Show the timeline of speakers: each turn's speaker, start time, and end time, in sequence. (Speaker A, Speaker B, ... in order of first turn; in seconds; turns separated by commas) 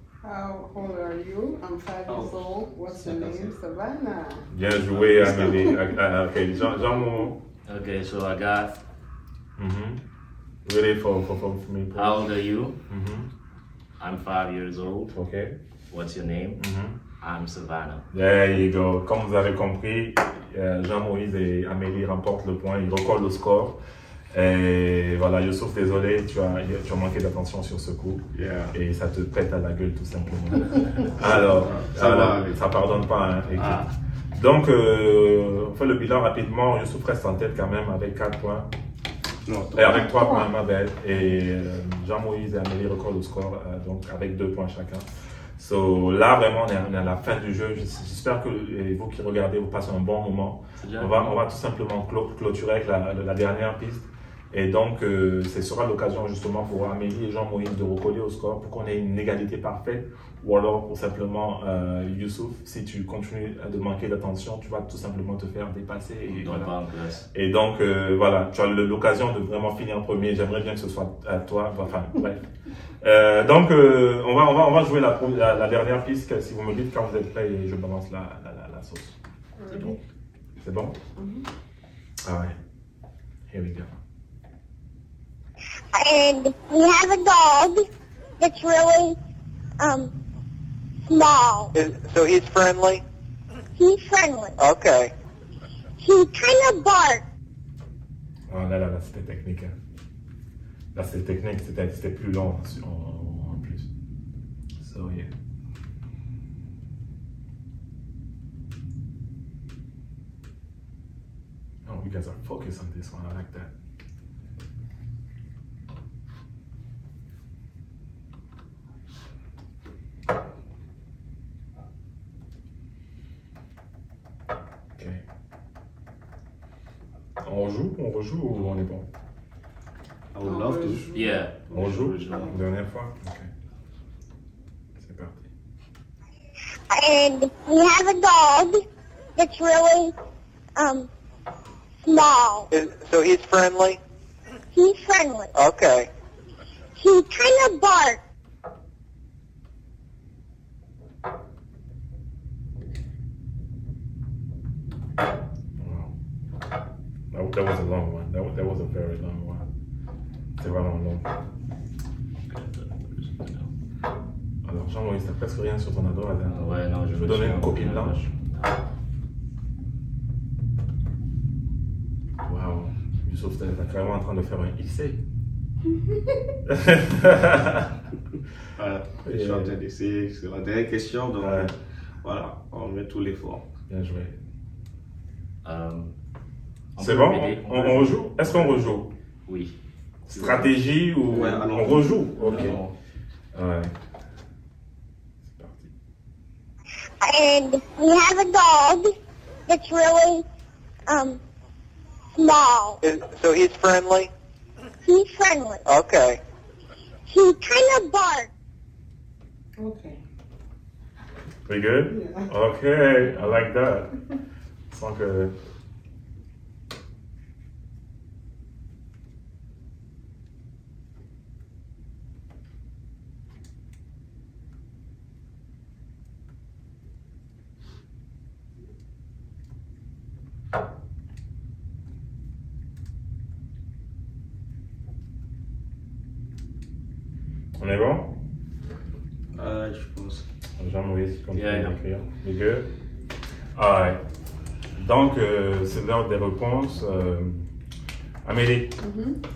Speaker A: 0.2-4.5, Speaker B: 2.1-2.3, Speaker B: 2.9-3.6, Speaker C: 4.5-7.4, Speaker B: 4.9-5.8, Speaker D: 7.7-8.8, Speaker C: 9.6-10.0, Speaker C: 10.6-12.2, Speaker D: 11.9-12.8, Speaker C: 12.9-13.3, Speaker D: 14.0-15.1, Speaker C: 15.1-15.6, Speaker D: 15.9-16.6, Speaker C: 16.6-17.0, Speaker D: 17.2-18.1, Speaker C: 18.1-23.8, Speaker C: 24.3-38.7, Speaker B: 28.3-28.7, Speaker B: 31.2-32.6, Speaker B: 33.5-33.9, Speaker B: 39.5-40.0, Speaker C: 39.7-66.7, Speaker A: 39.9-40.5, Speaker D: 50.8-51.4, Speaker D: 66.3-67.2, Speaker C: 67.3-72.5, Speaker C: 73.0-79.2, Speaker A: 79.6-80.0, Speaker D: 79.7-80.0, Speaker C: 80.6-81.0, Speaker A: 81.2-81.5, Speaker C: 82.2-82.5, Speaker C: 83.5-83.9, Speaker E: 85.9-87.8, Speaker E: 88.4-89.2, Speaker E: 89.8-90.1, Speaker E: 91.1-91.7, Speaker F: 91.7-93.0, Speaker E: 93.7-94.6, Speaker F: 94.6-95.1, Speaker E: 96.0-97.2, Speaker C: 98.5-99.7, Speaker C: 100.9-103.9, Speaker C: 104.8-105.3, Speaker C: 111.8-113.7, Speaker C: 125.0-125.2, Speaker C: 127.4-129.1, Speaker B: 130.3-131.1, Speaker A: 130.4-131.4, Speaker D: 131.1-132.6, Speaker C: 131.7-133.5, Speaker C: 135.0-135.5, Speaker E: 136.9-138.8, Speaker E: 139.4-140.1, Speaker E: 140.8-141.1, Speaker E: 142.0-142.7, Speaker F: 142.7-144.0, Speaker E: 144.7-145.5, Speaker F: 145.5-146.1, Speaker E: 146.9-148.2, Speaker C: 155.8-156.1, Speaker C: 157.3-159.7, Speaker C: 160.6-161.2, Speaker D: 162.5-163.7, Speaker C: 164.6-168.2, Speaker D: 166.4-168.8, Speaker C: 172.4-175.2, Speaker C: 176.7-177.9, Speaker B: 178.8-183.7, Speaker C: 179.2-179.7, Speaker C: 181.4-181.7, Speaker C: 183.9-184.3, Speaker D: 185.6-186.1, Speaker D: 186.9-189.8, Speaker C: 187.0-189.1, Speaker C: 190.3-192.8, Speaker D: 190.3-190.7, Speaker B: 191.3-192.1, Speaker D: 192.4-192.9, Speaker C: 193.5-193.9, Speaker C: 195.4-195.9, Speaker E: 197.2-199.1, Speaker E: 199.7-200.4, Speaker E: 201.1-201.4, Speaker E: 202.4-203.0, Speaker F: 203.0-204.3, Speaker E: 205.0-205.8, Speaker F: 205.8-206.4, Speaker E: 207.2-208.5, Speaker A: 209.8-210.2, Speaker C: 211.7-214.1, Speaker A: 212.1-212.5, Speaker C: 214.9-215.5, Speaker C: 237.8-238.3, Speaker B: 239.5-240.4, Speaker C: 240.8-242.9, Speaker D: 241.5-241.9, Speaker C: 243.7-244.2, Speaker C: 244.9-247.7, Speaker C: 248.4-249.0, Speaker A: 249.0-249.4